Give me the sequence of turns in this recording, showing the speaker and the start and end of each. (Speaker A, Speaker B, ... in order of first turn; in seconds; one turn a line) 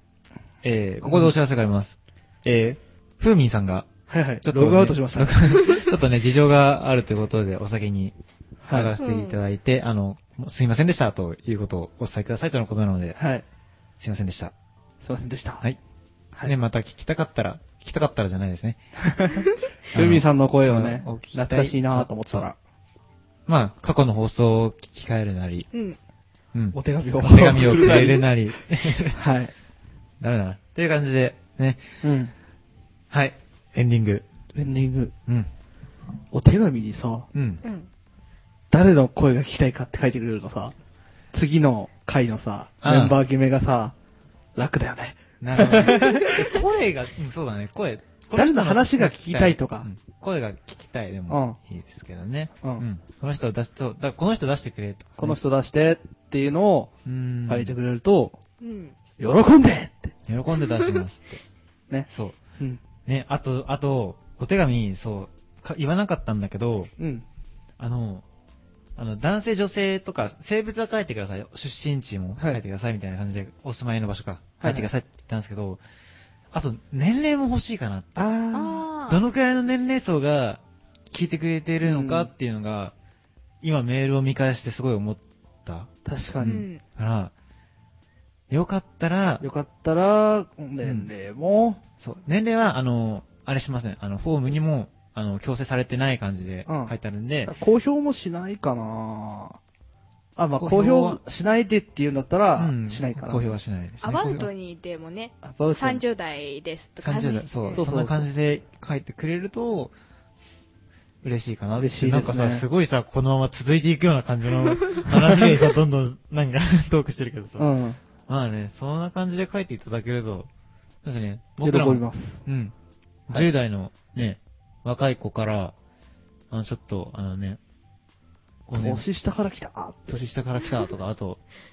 Speaker A: 0.6-8.1
Speaker B: 1.0-1.3
Speaker B: 4.1-5.4
Speaker B: 8.6-8.9
Speaker A: 8.7-13.2
Speaker C: 9.0-9.4
Speaker B: 13.2-13.4
Speaker A: 14.0-14.5
Speaker B: 15.0-15.6
Speaker A: 16.4-18.8
Speaker B: 19.0-22.6
Speaker A: 19.9-22.5
Speaker A: 23.5-25.7
Speaker A: 26.5-29.2
Speaker B: 26.7-28.2
Speaker B: 29.1-29.5
Speaker A: 30.2-32.0
Speaker B: 32.0-32.3
Speaker A: 33.1-34.3
Speaker B: 34.5-35.1
Speaker B: 36.3-37.3
Speaker A: 37.3-37.6
Speaker B: 38.7-40.8
Speaker B: 41.3-44.0
Speaker A: 42.8-43.2
Speaker B: 44.6-46.6
Speaker A: 45.4-55.4
Speaker B: 48.3-49.9
Speaker B: 51.3-51.6
Speaker B: 55.2-56.9
Speaker A: 57.1-57.7
Speaker B: 57.5-58.4
Speaker C: 58.6-59.0
Speaker B: 59.2-60.1
Speaker A: 60.3-61.4
Speaker B: 61.9-62.8
Speaker A: 62.1-62.4
Speaker A: 63.1-66.9
Speaker B: 67.0-67.2
Speaker A: 67.8-68.3
Speaker A: 69.0-75.8
Speaker B: 72.4-72.6
Speaker B: 74.6-74.9
Speaker A: 76.5-78.2
Speaker B: 78.2-78.8
Speaker C: 78.5-79.2
Speaker A: 79.1-82.9
Speaker B: 81.8-82.3
Speaker A: 83.6-87.3
Speaker B: 86.0-86.6
Speaker C: 86.4-86.8
Speaker A: 88.5-89.5
Speaker B: 89.4-91.8
Speaker A: 90.8-91.1
Speaker A: 92.0-97.5
Speaker B: 96.7-96.9
Speaker B: 97.5-99.6
Speaker B: 100.4-103.6
Speaker A: 100.6-101.2
Speaker A: 102.5-104.5
Speaker C: 104.0-107.8
Speaker B: 105.4-106.0
Speaker A: 107.0-109.9
Speaker B: 107.7-108.3
Speaker A: 111.2-117.7
Speaker B: 111.8-112.7
Speaker B: 117.6-118.0
Speaker A: 118.3-120.5
Speaker A: 121.0-122.7
Speaker B: 121.6-122.4
Speaker A: 123.3-125.8
Speaker A: 126.5-127.6
Speaker A: 128.7-129.1
Speaker B: 128.8-130.2
Speaker A: 130.1-131.4